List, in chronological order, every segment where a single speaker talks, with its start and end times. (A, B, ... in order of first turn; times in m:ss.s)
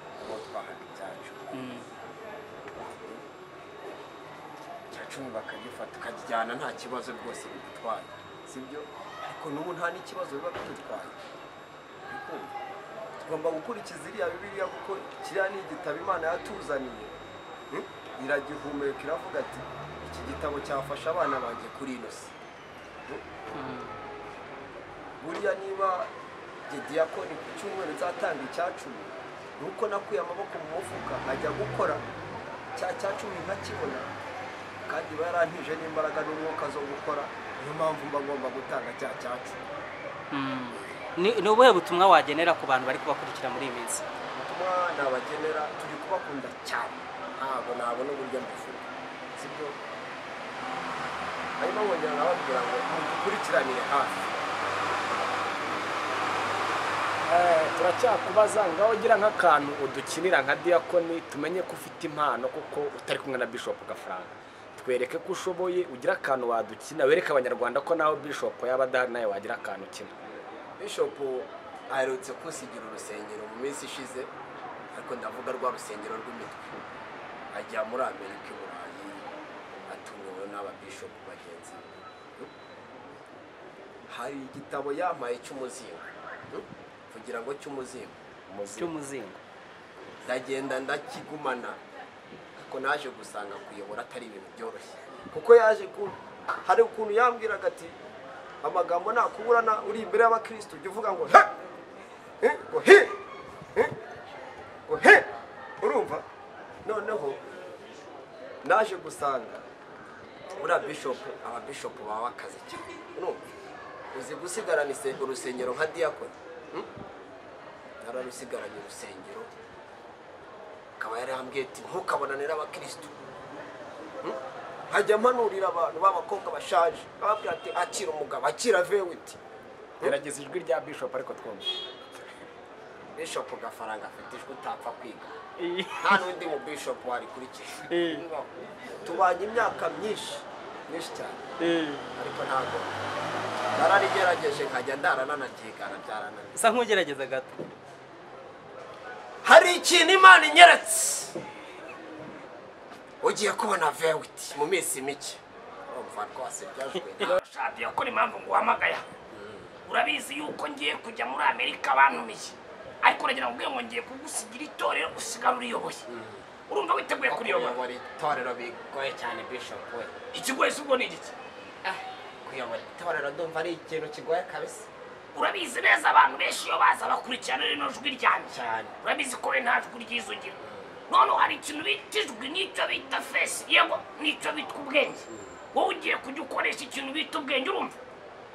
0:00.2-0:01.7 A
0:01.5-0:01.9 B
0:02.8-0:03.2 A
0:04.9-0:11.2 A
0:12.1-0:12.5 A
0:13.2-0:17.1 A
0:17.7-0:22.3 A
0:23.5-0:24.0 B
0:25.2-0:26.1 A
0:26.7-0:32.0 A
0:32.7-0:34.1 A
0:34.8-0:39.6 A
0:40.3-0:44.0 B
0:44.3-0:49.8 A
0:51.6-0:54.4 A
0:57.2-1:10.2 C
1:10.8-1:14.3 A
1:14.9-1:16.8 A
1:17.5-1:19.3 A
1:19.9-1:22.5 A
1:24.1-1:28.2 A
1:28.5-1:28.9 C
1:28.7-1:29.4 B
1:30.2-1:31.8 A
1:32.6-1:38.0 A
1:38.6-1:41.5 A
1:42.4-1:43.2 A
1:44.9-1:45.3 A
1:45.8-1:46.2 A
1:46.8-1:47.4 A
1:48.6-1:49.6 A
1:50.6-1:53.4 A
1:54.1-1:56.9 A
1:58.0-1:59.5 A
2:01.0-2:03.1 A
2:04.9-2:09.4 A
2:10.0-2:11.7 C
2:13.2-2:15.4 A
2:15.6-2:16.1 B
2:16.0-2:21.4 A
2:17.9-2:18.2 B
2:21.6-2:22.0 B
2:22.1-2:23.0 A
2:23.7-2:26.5 A
2:26.5-2:27.6 B
2:29.4-2:31.4 A
2:33.2-2:37.4 A
2:37.2-2:39.1 D
2:39.3-2:39.7 A
2:39.8-2:46.1 D
2:46.1-2:46.5 A
2:46.7-2:47.8 D
2:47.2-2:50.2 A
2:50.3-2:51.3 D
2:51.8-2:54.9 A
2:55.3-3:00.6 D
2:58.5-2:59.0 A
3:01.1-3:07.9 D
3:05.3-3:05.6 A